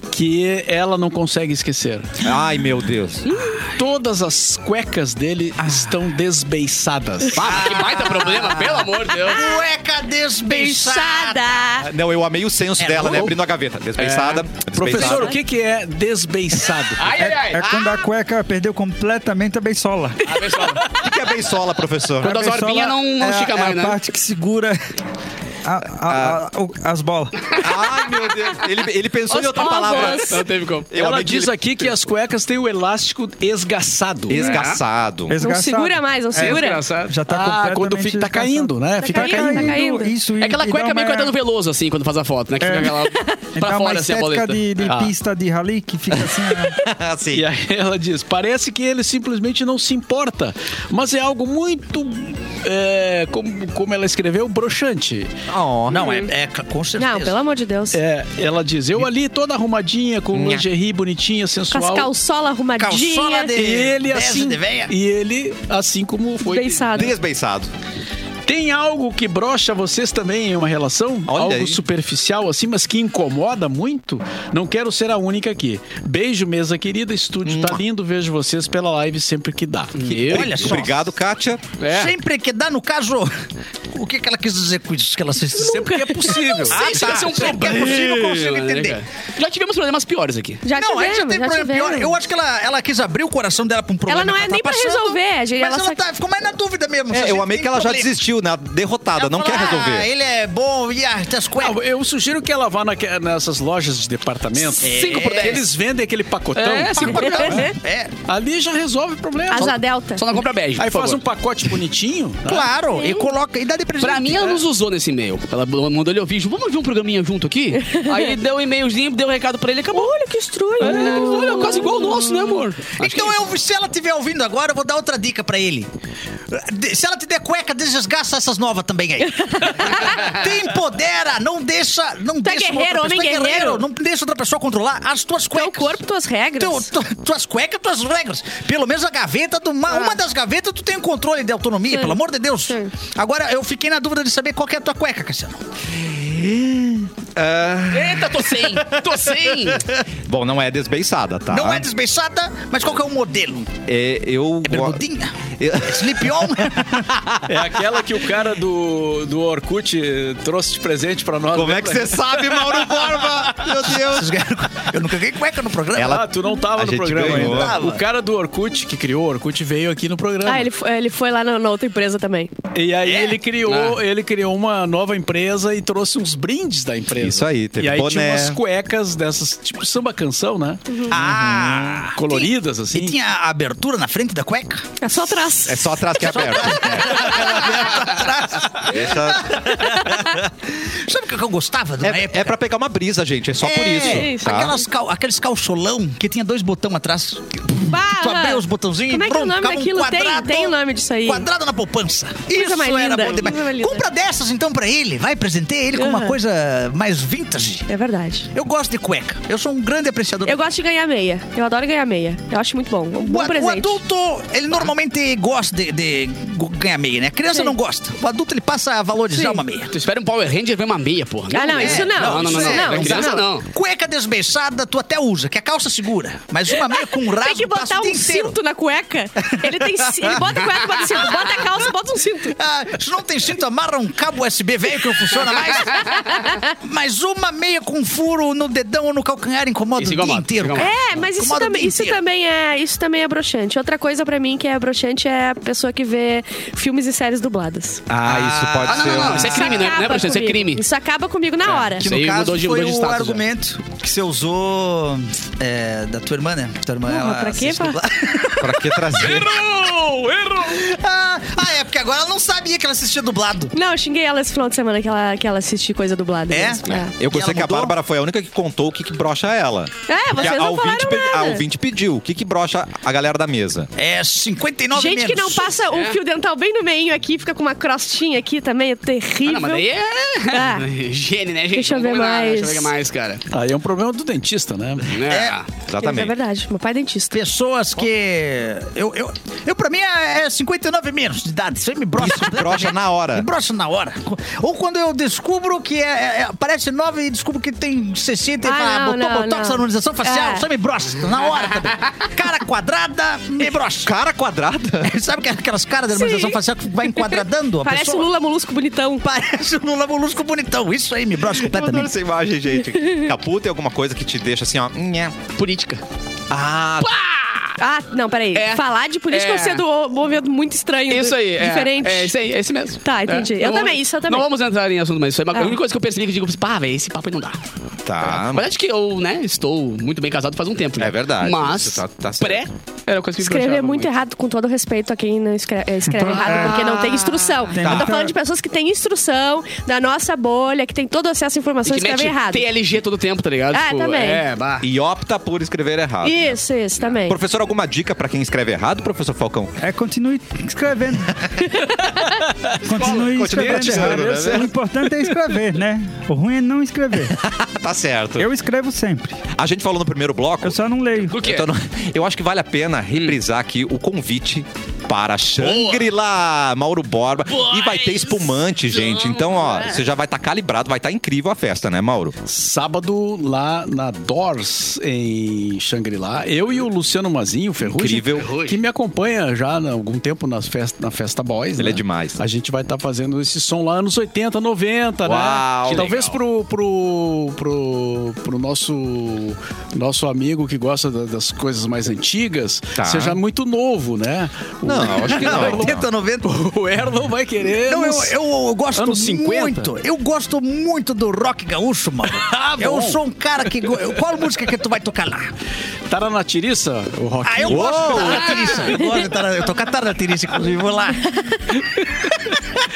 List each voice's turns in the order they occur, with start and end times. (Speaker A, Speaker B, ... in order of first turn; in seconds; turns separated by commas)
Speaker A: 0.1-2.1, Speaker B: 2.2-3.3, Speaker C: 3.3-3.7, Speaker A: 3.7-7.7, Speaker C: 7.3-9.5, Speaker D: 7.4-11.5, Speaker E: 9.2-9.6, Speaker E: 10.4-11.9, Speaker B: 11.8-15.4, Speaker D: 12.8-13.3, Speaker A: 14.0-17.2, Speaker C: 17.0-17.8, Speaker F: 17.1-20.7, Speaker C: 20.2-21.0, Speaker A: 20.6-20.8, Speaker B: 20.9-22.4, Speaker C: 22.2-24.0, Speaker F: 22.2-24.8, Speaker F: 25.6-27.6, Speaker B: 26.1-26.4, Speaker B: 27.6-32.0, Speaker E: 29.3-30.4, Speaker C: 29.7-30.9, Speaker A: 30.9-34.7, Speaker B: 34.3-35.4, Speaker C: 34.3-34.8, Speaker F: 35.3-41.3, Speaker E: 35.4-36.8, Speaker A: 36.4-39.8, Speaker C: 36.4-37.1, Speaker E: 39.0-40.1, Speaker C: 40.4-44.7, Speaker F: 42.6-46.8, Speaker E: 43.0-43.4, Speaker A: 44.8-45.1, Speaker B: 46.7-47.5, Speaker A: 47.3-55.3, Speaker B: 55.5-56.1, Speaker D: 55.9-57.4, Speaker E: 55.9-56.3, Speaker E: 57.0-58.0, Speaker A: 57.9-62.1, Speaker B: 60.3-60.7, Speaker E: 61.7-63.5, Speaker D: 62.8-64.9, Speaker A: 63.5-67.1, Speaker E: 66.4-67.1, Speaker B: 66.9-67.7, Speaker A: 68.5-80.7, Speaker B: 71.3-71.8, Speaker B: 77.5-77.8, Speaker C: 80.0-80.6, Speaker D: 80.2-81.1, Speaker B: 80.3-81.7, Speaker C: 81.8-82.1, Speaker D: 81.9-83.3, Speaker D: 83.9-89.0, Speaker A: 85.6-87.8, Speaker E: 85.6-86.7, Speaker C: 86.7-90.6, Speaker E: 90.6-92.2, Speaker D: 90.7-98.2, Speaker E: 94.1-96.0, Speaker B: 97.1-100.1, Speaker D: 99.2-101.8, Speaker A: 101.6-107.7, Speaker D: 104.8-105.7, Speaker C: 104.8-105.6, Speaker C: 106.6-107.5, Speaker D: 106.9-108.1, Speaker E: 107.1-107.7, Speaker A: 108.3-109.8, Speaker E: 109.5-110.2, Speaker C: 109.6-111.2, Speaker A: 110.8-112.7, Speaker D: 112.5-114.6, Speaker E: 113.0-113.3, Speaker C: 114.0-120.1, Speaker E: 117.8-118.3, Speaker E: 119.9-122.3, Speaker C: 120.8-123.4, Speaker D: 123.0-125.9, Speaker D: 126.5-136.0, Speaker E: 129.2-130.2, Speaker E: 132.4-133.8, Speaker E: 135.5-136.9, Speaker D: 136.6-145.6, Speaker E: 141.9-142.9, Speaker B: 146.0-148.9, Speaker C: 147.9-149.9, Speaker B: 150.3-151.9, Speaker D: 151.5-153.7, Speaker B: 153.9-155.0, Speaker D: 154.6-157.1, Speaker B: 155.6-157.4, Speaker A: 157.5-162.8, Speaker B: 161.5-164.3, Speaker D: 163.6-166.2, Speaker B: 165.9-167.8, Speaker A: 166.1-170.7, Speaker D: 167.2-168.0, Speaker E: 170.4-172.5, Speaker A: 172.7-181.0, Speaker D: 173.1-173.4, Speaker C: 173.7-174.0, Speaker B: 177.2-178.6, Speaker E: 180.9-181.1, Speaker D: 181.1-184.9, Speaker B: 181.2-181.5, Speaker A: 181.5-183.2, Speaker E: 185.0-186.6, Speaker B: 185.7-188.0, Speaker D: 186.2-192.6, Speaker B: 188.8-190.4, Speaker B: 192.0-194.8, Speaker D: 193.6-207.9, Speaker E: 193.9-194.8, Speaker E: 197.9-201.5, Speaker E: 202.5-204.1, Speaker E: 205.9-206.4, Speaker E: 207.9-208.5, Speaker D: 208.5-210.6, Speaker E: 210.4-214.0, Speaker D: 213.2-219.9, Speaker E: 219.3-219.6, Speaker C: 219.9-223.7, Speaker E: 221.5-223.5, Speaker D: 221.7-228.6, Speaker E: 226.8-232.6, Speaker D: 229.4-231.9, Speaker D: 232.5-242.2, Speaker E: 236.0-236.7, Speaker C: 240.0-240.9, Speaker E: 240.8-248.0, Speaker B: 248.1-249.8, Speaker D: 248.2-249.8, Speaker C: 248.8-250.8, Speaker E: 249.4-252.1, Speaker D: 251.7-259.7, Speaker C: 252.0-253.4, Speaker E: 257.1-258.0, Speaker B: 258.6-259.7, Speaker A: 259.4-260.7, Speaker D: 260.6-263.7, Speaker E: 263.7-267.1, Speaker D: 266.5-268.0, Speaker B: 266.9-273.9, Speaker E: 270.1-271.6, Speaker D: 274.0-275.8, Speaker E: 274.9-279.9, Speaker C: 275.9-276.2, Speaker C: 279.4-283.4, Speaker E: 280.5-280.9, Speaker E: 281.7-282.9, Speaker A: 283.5-285.2, Speaker C: 285.1-285.7, Speaker D: 285.3-285.6, Speaker B: 285.9-286.4, Speaker E: 286.0-287.4, Speaker D: 287.3-304.1, Speaker B: 292.2-293.5, Speaker E: 298.6-300.7, Speaker B: 304.1-305.1, Speaker D: 305.0-308.3, Speaker E: 306.1-309.3, Speaker D: 309.2-312.1, Speaker B: 311.5-315.4, Speaker C: 315.6-316.0, Speaker B: 316.5-317.1, Speaker C: 317.0-317.8, Speaker E: 317.8-322.3, Speaker C: 318.6-319.8, Speaker C: 321.1-327.6, Speaker E: 323.0-324.5, Speaker B: 328.1-328.6, Speaker C: 328.2-334.1, Speaker B: 331.0-332.7, Speaker E: 333.4-342.6, Speaker F: 336.1-336.9, Speaker C: 336.3-336.8, Speaker B: 336.8-337.1, Speaker F: 337.7-338.3, Speaker B: 337.8-338.1, Speaker C: 341.9-344.9, Speaker E: 343.7-344.4, Speaker B: 344.8-346.6, Speaker E: 346.2-347.4, Speaker B: 347.2-349.8, Speaker F: 349.8-351.4, Speaker E: 351.6-352.4, Speaker A: 352.7-354.7, Speaker F: 352.8-357.4, Speaker B: 353.0-354.7, Speaker B: 357.3-358.5, Speaker F: 358.4-359.4, Speaker B: 359.6-360.8, Speaker F: 360.6-361.4, Speaker C: 361.3-361.7, Speaker B: 361.4-372.4, Speaker C: 365.6-366.1, Speaker C: 367.5-370.1, Speaker A: 372.5-398.4, Speaker B: 377.8-378.6, Speaker C: 378.4-378.7, Speaker B: 381.8-382.4, Speaker B: 385.2-386.2, Speaker C: 385.9-386.4, Speaker B: 393.0-393.4, Speaker B: 394.8-396.0, Speaker D: 395.2-396.5, Speaker D: 397.8-405.5, Speaker A: 398.9-399.9, Speaker A: 402.4-403.2, Speaker A: 406.1-408.5, Speaker D: 407.4-411.3, Speaker B: 407.7-408.7, Speaker C: 408.2-408.9, Speaker A: 411.8-412.8